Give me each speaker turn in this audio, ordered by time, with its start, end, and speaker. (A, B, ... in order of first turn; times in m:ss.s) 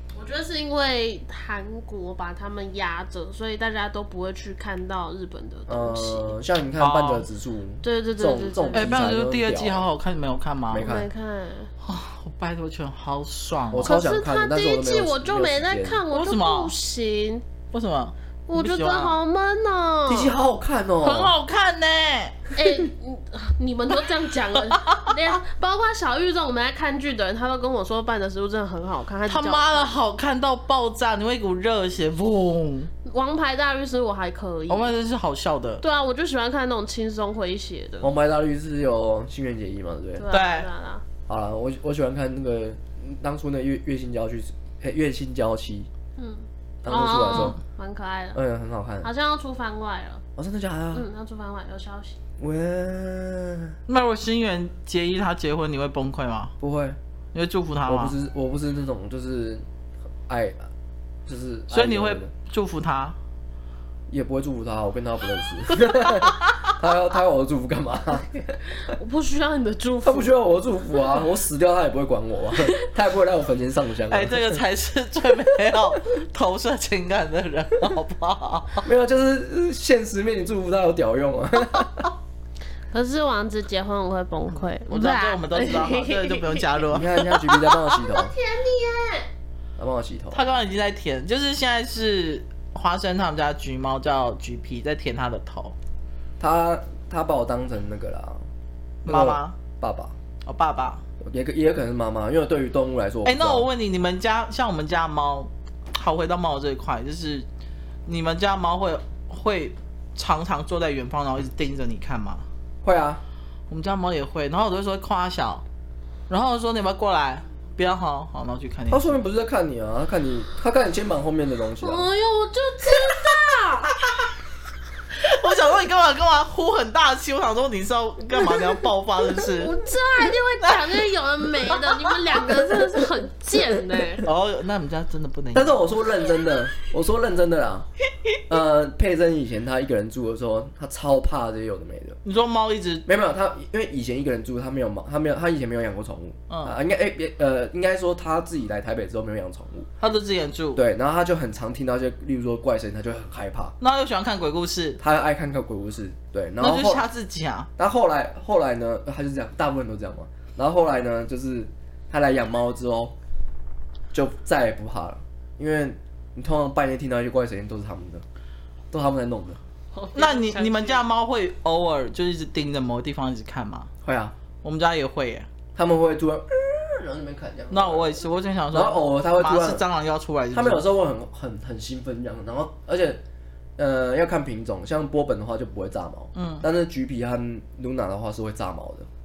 0:00.2-0:06.4 A
0:05.7-0:09.9 B
0:06.8-0:07.3 C
0:07.8-0:09.0 A
0:08.8-0:10.9 C
0:10.7-0:11.1 B
0:10.8-0:11.7 A
0:11.8-0:14.0 C
0:13.7-0:16.0 B
0:13.8-0:17.4 A
0:16.1-0:16.7 C
0:17.7-0:19.2 C
0:18.5-0:20.3 A
0:20.1-0:21.4 B
0:21.0-0:22.5 C
0:22.6-0:29.9 A
0:29.3-0:32.9 C
0:33.0-0:34.9 A
0:34.7-0:35.8 C
0:35.8-0:38.1 A
0:38.0-0:40.3 B
0:40.2-0:41.0 A
0:40.3-0:40.7 C
0:41.3-0:45.9 B
0:46.2-0:48.4 A
0:46.8-0:47.6 B
0:47.3-0:47.6 C
0:48.3-0:49.1 B
0:49.0-0:50.2 A
0:50.4-0:51.1 B
0:50.9-0:52.2 A
0:52.4-0:53.8 B
0:53.9-0:56.5 C
0:56.6-0:57.0 B
0:57.3-0:58.2 C
0:57.8-0:59.6 B
1:00.3-1:00.6 B
1:01.3-1:02.3 B
1:01.7-1:03.2 C
1:04.1-1:08.6 B
1:08.8-1:10.3 A
1:10.0-1:14.6 B
1:14.1-1:18.8 C
1:18.8-1:22.1 B
1:22.9-1:29.3 A
1:24.9-1:27.1 C
1:26.9-1:28.3 B
1:29.8-1:30.4 B
1:30.3-1:35.8 C
1:36.4-1:38.4 B
1:39.0-1:39.6 C
1:39.1-1:40.2 B
1:40.4-1:41.0 C
1:41.2-1:43.7 B
1:43.2-1:47.5 C
1:48.1-1:52.4 C
1:52.8-1:53.2 B
1:53.7-1:55.6 C
1:56.3-1:59.2 C
1:58.9-2:02.1 B
2:01.8-2:04.0 A
2:05.2-2:09.8 C
2:08.5-2:08.8 A
2:09.4-2:14.2 A
2:10.6-2:11.1 C
2:11.7-2:12.5 C
2:14.2-2:15.9 C
2:15.5-2:17.9 B
2:18.5-2:22.2 B
2:22.2-2:23.0 C
2:23.1-2:29.9 B
2:26.5-2:26.8 C
2:30.0-2:30.8 C
2:30.8-2:33.8 B
2:33.8-2:35.0 C
2:35.0-2:37.1 B
2:36.6-2:37.7 C
2:37.8-2:43.2 B
2:44.1-2:48.2 B
2:48.9-2:49.6 B
2:50.0-2:51.0 A
2:50.2-2:53.9 C
2:54.0-2:54.4 B
2:54.6-2:55.5 C
2:55.8-2:59.8 B
2:57.7-3:00.8 C
3:00.5-3:03.2 B
3:03.8-3:09.1 B
3:06.4-3:06.6 C